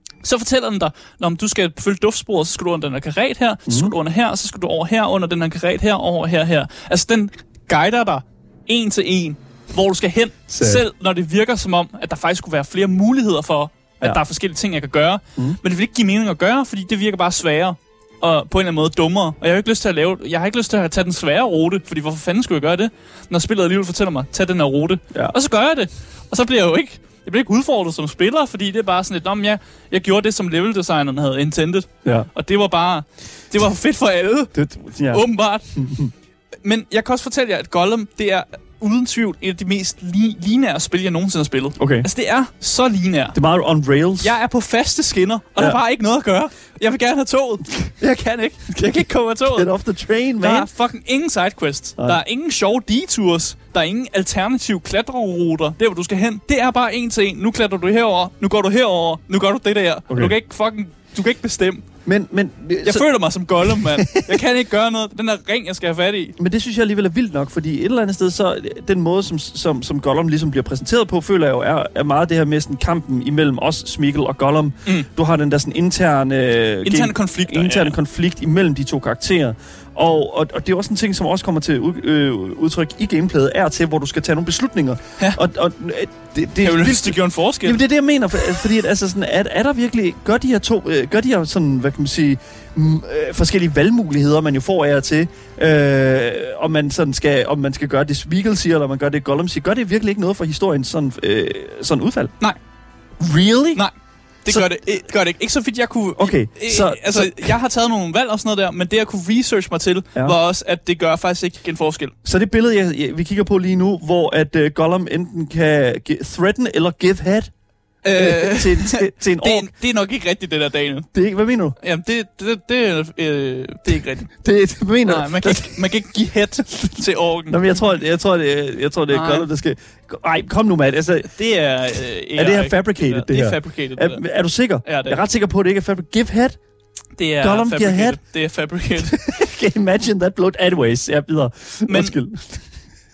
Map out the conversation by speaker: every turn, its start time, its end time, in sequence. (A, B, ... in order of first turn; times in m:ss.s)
0:00.2-0:34.5 A
0:03.7-0:03.9 B
0:10.5-0:10.8 B
0:34.6-0:36.1 B
0:35.1-0:35.7 A
0:36.6-0:43.4 A
0:41.8-0:42.1 B
0:43.4-0:44.4 B
0:44.2-0:49.7 A
0:49.0-0:50.7 B
0:50.4-1:01.9 A
1:02.0-1:03.1 B
1:02.8-1:06.4 A
1:03.6-1:04.4 B
1:06.4-1:42.3 B
1:16.8-1:18.0 A
1:26.6-1:27.8 A
1:43.2-1:43.8 B
1:44.4-1:52.1 A
1:44.5-1:44.8 B
1:46.2-1:47.6 B
1:52.2-1:57.5 B
1:58.0-2:01.1 A
1:58.2-1:59.7 B
2:01.1-2:01.8 B
2:01.8-2:04.3 A
2:04.3-2:05.9 B
2:05.0-2:07.6 A
2:07.5-2:11.3 B
2:09.1-2:09.5 A
2:11.3-2:14.2 A
2:12.4-2:16.6 B
2:14.8-2:15.2 A
2:17.2-2:19.2 A
2:17.4-2:18.2 B
2:19.0-2:22.7 B
2:21.9-2:22.2 A